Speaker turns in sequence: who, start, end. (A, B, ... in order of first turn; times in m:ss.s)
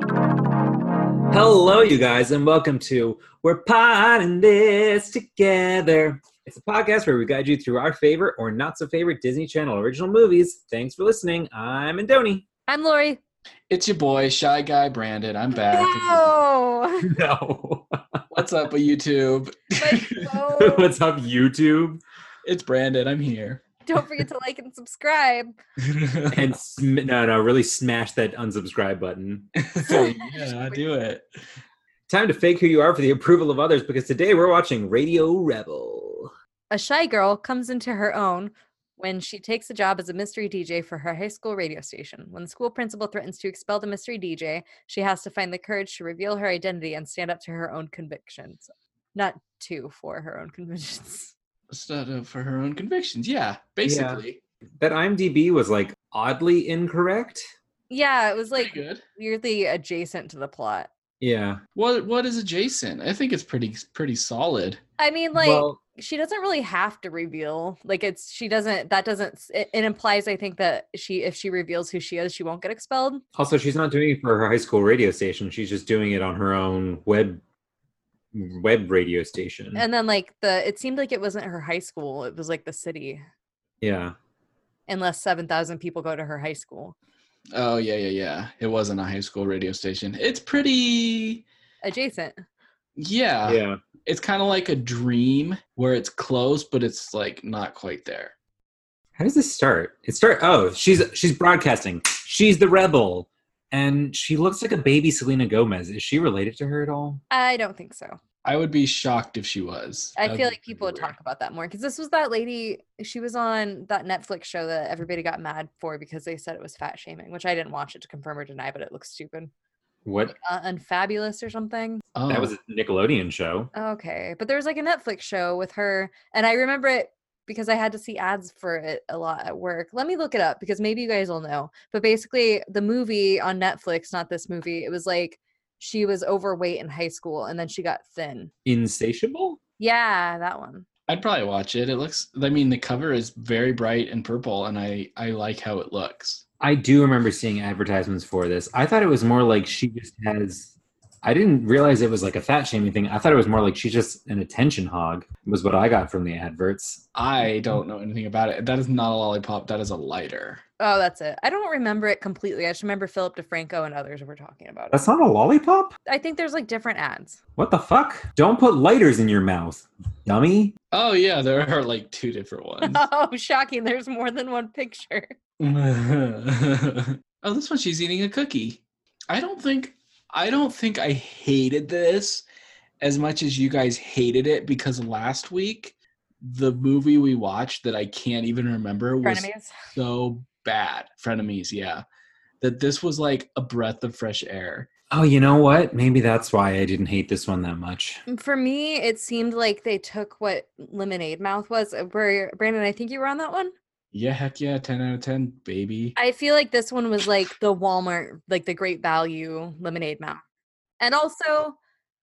0:01.3-0:12.4 A
0:12.7-0:13.2 B
0:13.7-0:16.4 C
0:15.6-0:17.1 B
0:17.0-0:18.2 A
0:18.3-0:20.3 C
0:19.8-0:20.9 B
0:20.6-0:22.0 A
0:22.4-0:23.7 C
0:23.8-0:25.6 B
0:25.8-0:26.5 C
0:26.3-0:29.5 A
0:29.6-0:31.2 C
0:29.8-0:30.8 B
0:32.1-0:36.3 A
0:36.7-0:51.3 B
0:51.7-0:54.4 C
0:53.8-0:54.2 A
0:54.8-0:57.5 A
0:57.9-1:00.9 B
0:58.6-0:59.0 C
1:01.2-1:01.6 A
1:01.8-1:04.8 C
1:05.0-1:13.2 B
1:05.3-1:05.8 A
1:13.4-1:17.4 A
1:18.3-1:19.8 A
1:19.8-1:23.2 B
1:23.8-1:24.2 A
1:24.9-1:27.0 B
1:27.5-1:31.4 C
1:31.8-1:32.4 B
1:33.0-1:38.3 C
1:33.4-1:33.8 A
1:39.2-1:47.2 A
1:47.3-1:48.2 B
1:48.4-1:51.1 C
1:50.2-1:59.5 B
2:00.0-2:00.4 A
2:00.4-2:02.0 B
2:02.2-2:02.5 C
2:02.3-2:03.7 A
2:03.8-2:18.5 B
2:18.6-2:19.6 A
2:19.8-2:20.9 B
2:21.1-2:26.4 C
2:26.6-2:30.7 A
2:31.2-2:37.0 A
2:37.2-2:40.6 C
2:40.8-2:45.0 B
2:44.9-2:46.0 A
2:46.1-2:47.4 B
2:47.6-2:50.8 A
2:50.9-2:53.0 C
2:52.8-2:55.4 B
2:55.6-3:02.4 C
3:03.0-3:12.0 C
3:09.2-3:09.8 B
3:12.6-3:14.9 C
3:15.1-3:18.2 A
3:18.3-3:23.7 B
3:24.1-3:26.2 C
3:26.2-3:30.4 B
3:31.0-3:31.8 B